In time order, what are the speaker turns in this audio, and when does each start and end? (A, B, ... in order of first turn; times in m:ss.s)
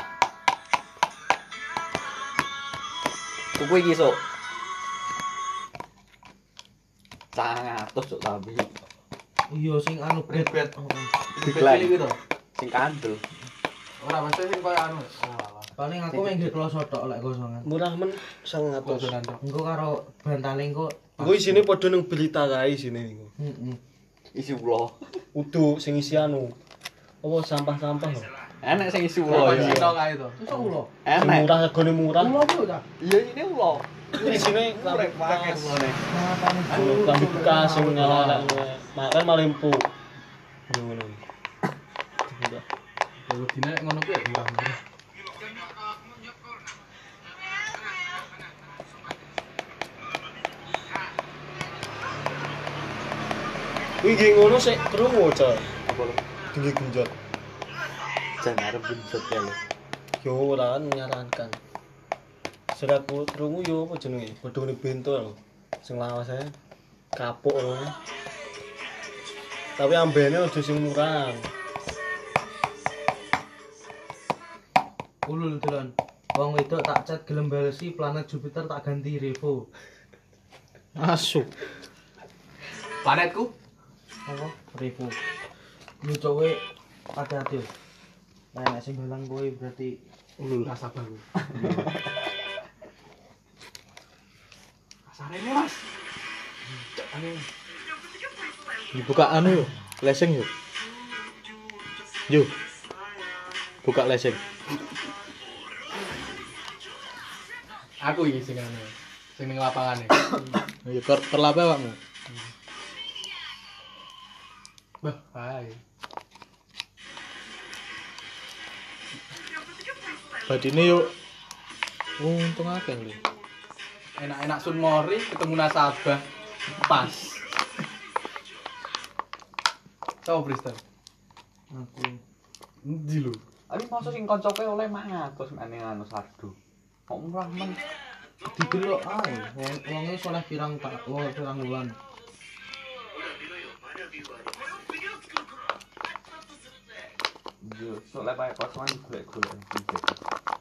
0:03.6-0:04.2 A
0:07.3-0:08.7 A
0:09.5-0:11.1 B
0:10.3-0:10.7 C
0:11.3-0:12.2 C
0:11.4-0:12.0 A
0:12.5-0:13.2 A
0:14.0-0:15.7 C
0:15.8-0:17.7 B
0:16.1-0:16.5 D
0:17.6-0:19.2 D
0:18.8-0:19.4 C
0:19.4-0:21.1 B
0:21.2-0:21.5 C
0:21.2-0:23.3 D
0:23.4-0:23.8 B
0:24.3-0:25.2 A
0:25.3-0:26.5 D
0:27.2-0:28.3 D
0:28.6-0:30.0 A
0:29.2-0:30.4 C
0:29.3-0:29.9 D
0:29.3-0:30.9 B
0:31.0-0:31.5 A
0:31.1-0:32.4 D
0:32.2-0:32.8 B
0:33.0-0:36.0 A
0:34.1-0:35.8 D
0:36.1-0:38.5 B
0:36.7-0:39.8 D
0:38.0-0:38.5 C
0:40.7-0:41.2 D
0:42.2-0:42.6 D
0:43.2-0:44.8 C
0:54.0-0:55.7 D
0:55.9-0:56.2 E
0:56.5-0:57.1 D
0:58.4-0:59.6 A
1:00.2-1:01.6 D
1:02.7-1:06.5 D
1:07.1-1:07.9 D
1:09.8-1:11.5 D
1:15.2-1:19.6 B
1:21.0-1:21.5 E
1:23.0-1:23.5 C
1:24.2-1:25.2 B
1:26.0-1:26.6 B
1:27.1-1:27.7 B
1:28.5-1:30.0 B
1:30.4-1:30.7 E
1:30.6-1:31.6 C
1:31.6-1:31.9 A
1:35.1-1:35.8 C
1:36.9-1:37.4 C
1:38.9-1:40.5 E
1:42.3-1:42.5 E
1:43.8-1:44.4 E
1:48.0-1:50.3 C
1:50.8-1:52.0 E
1:55.0-1:55.8 C
2:00.5-2:01.1 E
2:02.2-2:03.2 E
2:04.2-2:06.2 C
2:06.8-2:07.4 C
2:10.2-2:10.8 C
2:11.7-2:12.2 B
2:12.8-2:13.4 C
2:13.7-2:16.5 A
2:17.1-2:17.8 A
2:18.5-2:22.0 B
2:27.6-2:30.2 A